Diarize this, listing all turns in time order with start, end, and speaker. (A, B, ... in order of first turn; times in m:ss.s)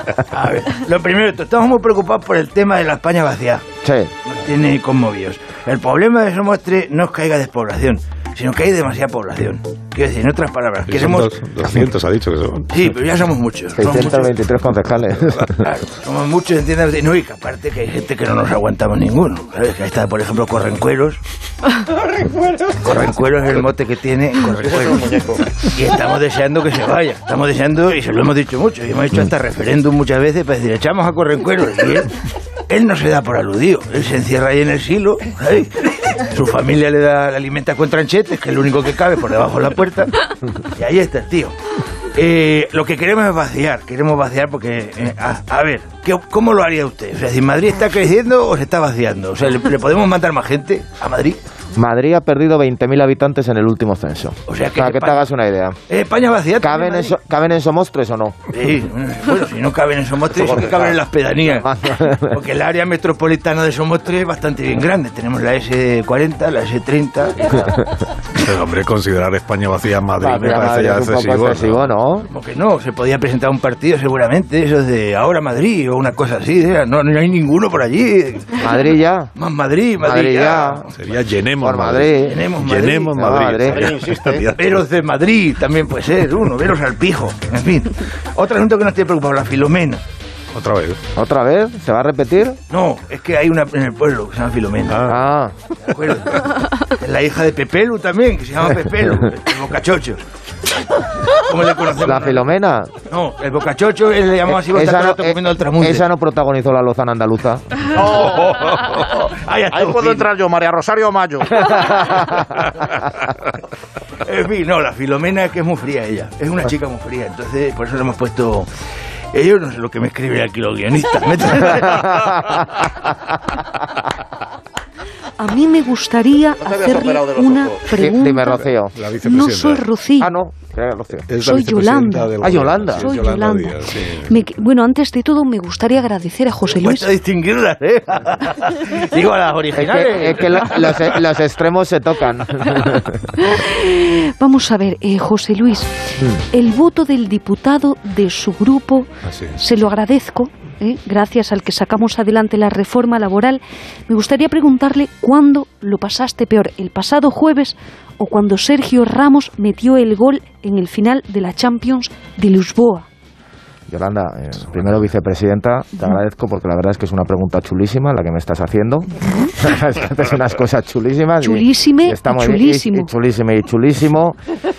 0:00.3-0:03.6 A
0:03.8-0:04.1 B
0:04.2-0:11.3 A
0:10.9-0:12.9 C
0:12.7-0:14.4 A
0:13.8-0:15.6 B
0:15.6-0:21.2 A
0:22.7-0:32.1 A
0:24.6-0:25.4 D
0:32.7-0:40.1 A
0:40.7-0:41.6 A
0:42.1-0:51.4 A
0:51.8-0:55.8 B
0:54.5-0:55.3 A
0:55.9-0:57.2 A
0:56.6-0:58.4 B
0:58.5-1:07.7 A
1:00.4-1:01.0 D
1:01.6-1:02.4 B
1:08.4-1:11.9 C
1:10.2-1:12.3 B
1:12.3-1:18.7 A
1:18.6-1:19.3 B
1:19.4-1:21.0 A
1:20.0-1:20.9 B
1:21.0-1:24.8 C
1:21.6-1:22.5 B
1:22.2-1:23.2 A
1:23.1-1:24.4 B
1:23.7-1:24.4 D
1:24.6-1:30.0 A
1:30.5-1:31.0 C
1:31.1-1:32.6 B
1:32.7-1:35.1 A
1:34.9-1:35.2 C
1:35.1-1:35.6 B
1:35.8-1:40.2 A
1:41.3-1:42.4 A
1:42.0-1:42.9 B
1:43.1-1:46.0 A
1:44.6-1:47.8 B
1:47.9-1:48.7 D
1:48.2-1:50.3 A
1:48.6-1:49.0 C
1:49.7-1:52.1 D
1:54.2-1:58.7 A
1:59.3-2:02.3 A
2:02.0-2:02.4 B
2:05.4-2:08.7 E
2:06.6-2:07.9 D
2:07.9-2:09.0 B
2:08.9-2:09.9 C
2:09.2-2:10.3 E
2:10.2-2:11.3 B
2:11.3-2:14.3 C
2:11.4-2:17.1 E
2:12.4-2:13.1 B
2:16.7-2:21.1 A
2:19.7-2:23.2 B
2:22.7-2:25.9 E
2:26.5-2:43.1 E
2:29.3-2:29.6 C
2:43.9-2:54.4 B
2:51.4-2:53.1 E